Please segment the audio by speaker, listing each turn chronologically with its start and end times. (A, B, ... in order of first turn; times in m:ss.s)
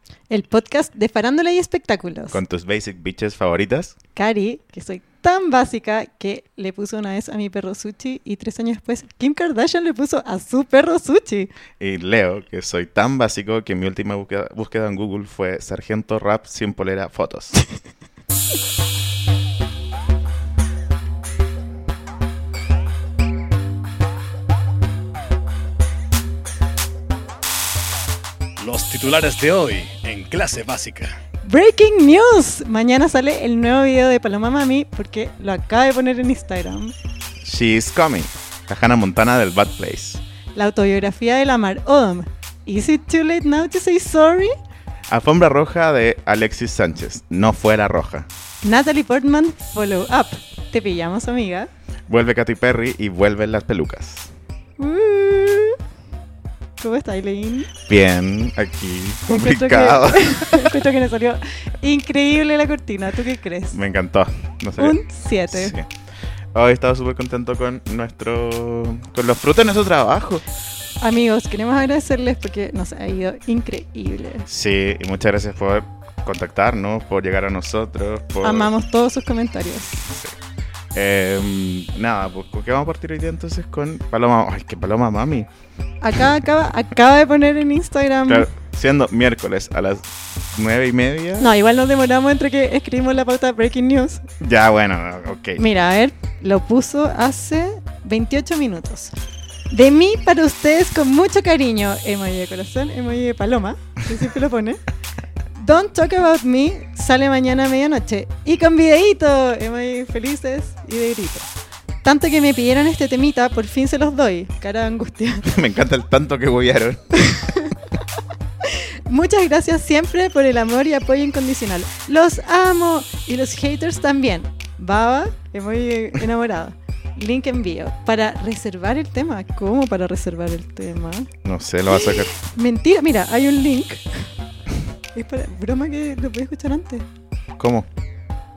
0:00.3-0:02.4 A
0:02.3-0:04.0 B
0:04.2-0:11.5 A
0:11.8-0:17.6 B
0:28.6-0:31.2 C
0:31.4-0:37.0 A
0:37.4-0:40.2 B
0:40.6-0:44.6 A
0:45.1-0:48.3 B
0:48.6-0:51.7 A
0:52.1-0:54.3 B
0:54.8-0:55.8 A
0:56.8-0:57.7 A
0:57.9-1:00.7 B
0:59.3-1:03.8 A
1:03.7-1:05.9 B
1:04.8-1:05.8 A
1:06.6-1:10.4 B
1:11.0-1:14.5 A
1:14.5-1:18.7 B
1:18.4-1:20.0 A
1:20.1-1:20.4 B
1:20.9-1:25.5 B
1:26.0-1:28.5 A
1:28.3-1:31.5 B
1:31.4-1:34.2 A
1:34.4-1:35.6 B
1:35.6-1:39.2 A
1:39.7-1:44.8 A
1:45.5-1:51.5 A
1:52.0-1:55.5 A
1:55.5-1:57.3 B
1:57.2-1:57.8 A
1:58.6-2:11.3 A
2:11.4-2:12.3 B
2:11.9-2:14.3 A
2:15.1-2:17.1 A
2:17.6-2:17.9 B